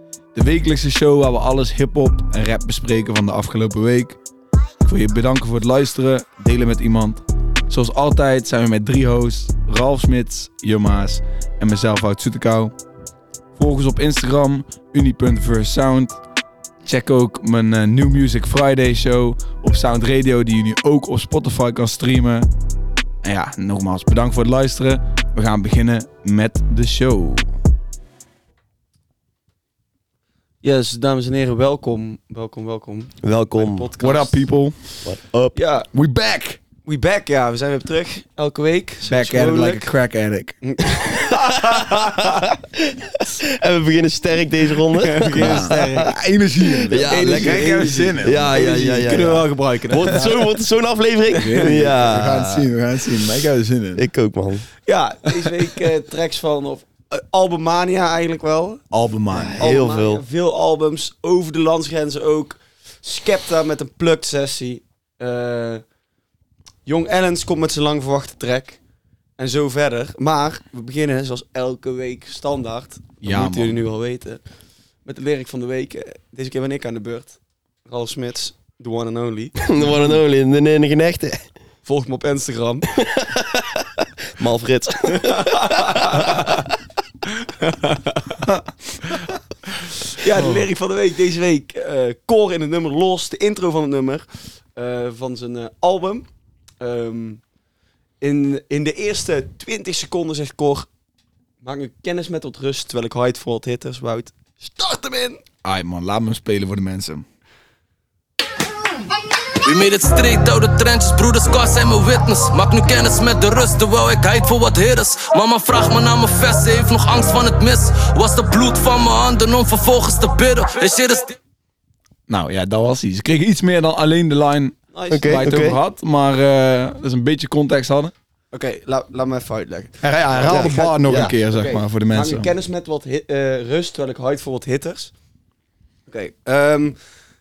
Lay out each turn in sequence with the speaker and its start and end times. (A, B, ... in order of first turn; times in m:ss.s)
0:00.3-0:04.2 A
0:04.8-0:12.7 A
0:13.6-0:16.2 A
0:16.8-0:22.5 A
0:23.2-0:27.5 A
0:30.6-0:34.4 B
0:33.2-0:33.9 C
0:34.0-0:34.8 A
0:35.0-0:35.5 C
0:35.5-0:35.9 B
0:35.9-0:36.6 A
0:36.8-0:39.9 B
0:39.0-0:40.6 A
0:40.6-0:42.5 B
0:41.3-0:46.1 C
0:45.0-0:46.2 B
0:45.3-0:48.5 A
0:46.8-0:52.7 C
0:47.1-0:50.4 B
0:51.3-0:51.9 B
0:51.4-0:54.0 A
0:54.0-0:54.7 C
0:54.8-0:58.8 B
0:58.9-0:59.6 A
0:59.3-1:00.2 C
0:59.6-1:05.8 B
1:06.8-1:08.8 B
1:09.4-1:14.4 B
1:13.2-1:13.8 A
1:15.0-1:20.2 B
1:19.6-1:21.4 C
1:21.8-1:22.9 B
1:23.0-1:26.6 C
1:25.0-1:26.6 B
1:27.2-1:28.4 B
1:30.1-1:36.2 B
1:36.8-1:37.4 B
1:38.2-1:40.9 B
1:41.6-1:45.4 B
1:45.6-1:47.2 A
1:49.6-2:01.4 D
2:02.3-2:08.1 A
2:04.9-2:05.4 B
2:05.1-2:05.8 C
2:08.5-2:15.1 B
2:10.0-2:12.5 A
2:10.4-2:11.4 C
2:16.1-2:17.0 B